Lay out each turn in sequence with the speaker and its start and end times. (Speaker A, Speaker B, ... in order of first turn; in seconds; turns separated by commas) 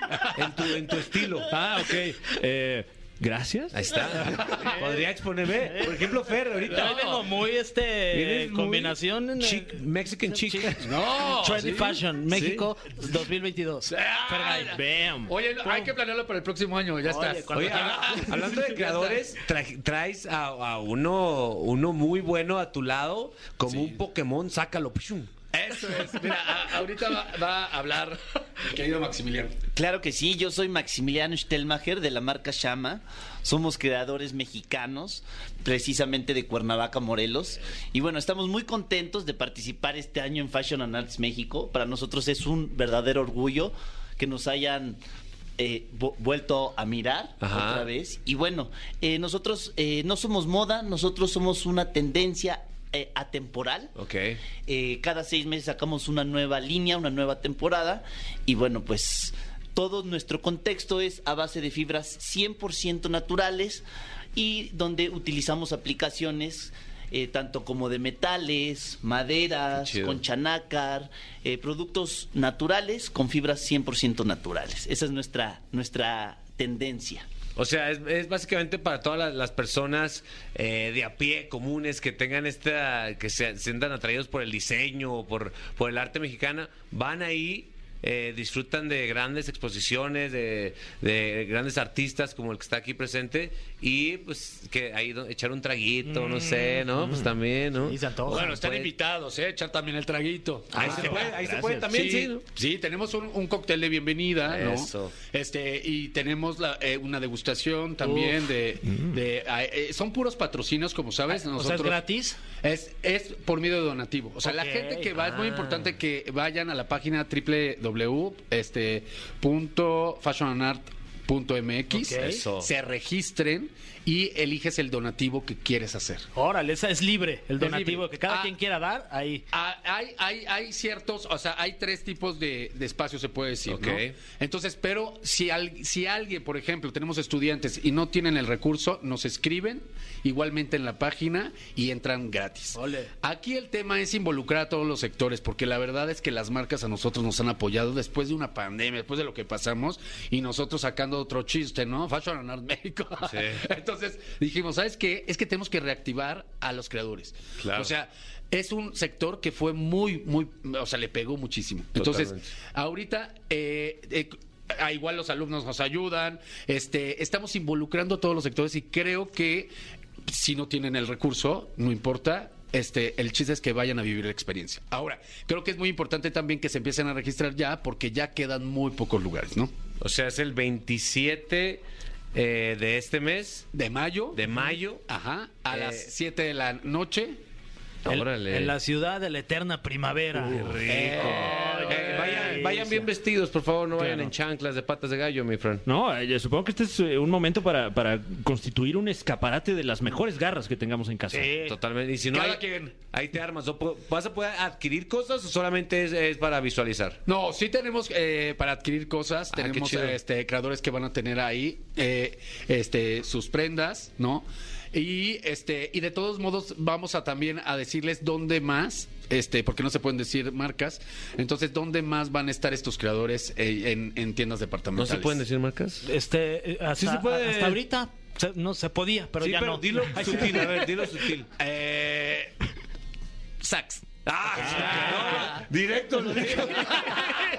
Speaker A: 0.3-1.6, Speaker B: 1.5-4.3, Speaker A: 3.7-7.0, Speaker C: 4.4-4.7, Speaker D: 5.7-9.8, Speaker C: 6.7-7.3, Speaker A: 8.1-10.8, Speaker D: 10.3-14.8, Speaker C: 10.8-12.0, Speaker A: 12.3-12.7, Speaker C: 13.9-19.0, Speaker B: 14.7-15.3, Speaker D: 17.0-18.8, Speaker A: 17.5-25.3, Speaker C: 23.7-24.0, Speaker C: 25.5-29.6, Speaker E: 29.7-45.0, Speaker E: 45.6-53.9, Speaker A: 47.4-47.9, Speaker A: 54.0-54.4, Speaker E: 54.7-63.8, Speaker E: 64.3-77.2, Speaker A: 69.8-70.2, Speaker A: 77.5-98.9, Speaker B: 96.1-97.3, Speaker D: 97.8-98.5, Speaker C: 98.3-101.2, Speaker A: 100.7-102.4, Speaker B: 100.8-101.9, Speaker C: 101.9-112.0, Speaker A: 104.4-105.1, Speaker D: 108.0-108.4, Speaker D: 111.3-112.4, Speaker C: 112.6-126.3, Speaker D: 114.4-115.7, Speaker D: 121.9-122.4, Speaker A: 122.2-122.7, Speaker D: 126.3-129.4, Speaker C: 127.6-128.5, Speaker C: 129.5-169.7, Speaker A: 133.7-134.1, Speaker D: 142.8-143.1, Speaker A: 153.2-153.6, Speaker A: 157.6-157.9, Speaker A: 161.9-162.5, Speaker C: 170.3-179.7, Speaker A: 180.0-181.8, Speaker A: 182.3-183.7, Speaker C: 183.7-184.4, Speaker A: 184.3-185.1, Speaker C: 185.1-187.4, Speaker A: 185.7-186.1, Speaker A: 188.0-188.7, Speaker D: 188.1-193.1, Speaker A: 190.3-195.8, Speaker C: 190.8-192.6, Speaker D: 194.0-194.3, Speaker B: 195.8-201.6, Speaker D: 201.3-201.7, Speaker A: 201.5-207.2, Speaker C: 202.3-202.9, Speaker C: 207.2-225.4, Speaker A: 209.5-210.2, Speaker A: 224.9-226.1, Speaker D: 226.0-231.0, Speaker A: 227.0-227.8, Speaker A: 229.4-231.5, Speaker C: 231.6-232.5, Speaker C: 233.6-235.6, Speaker A: 234.2-237.2, Speaker B: 234.6-235.2, Speaker D: 234.7-235.5, Speaker C: 236.9-237.2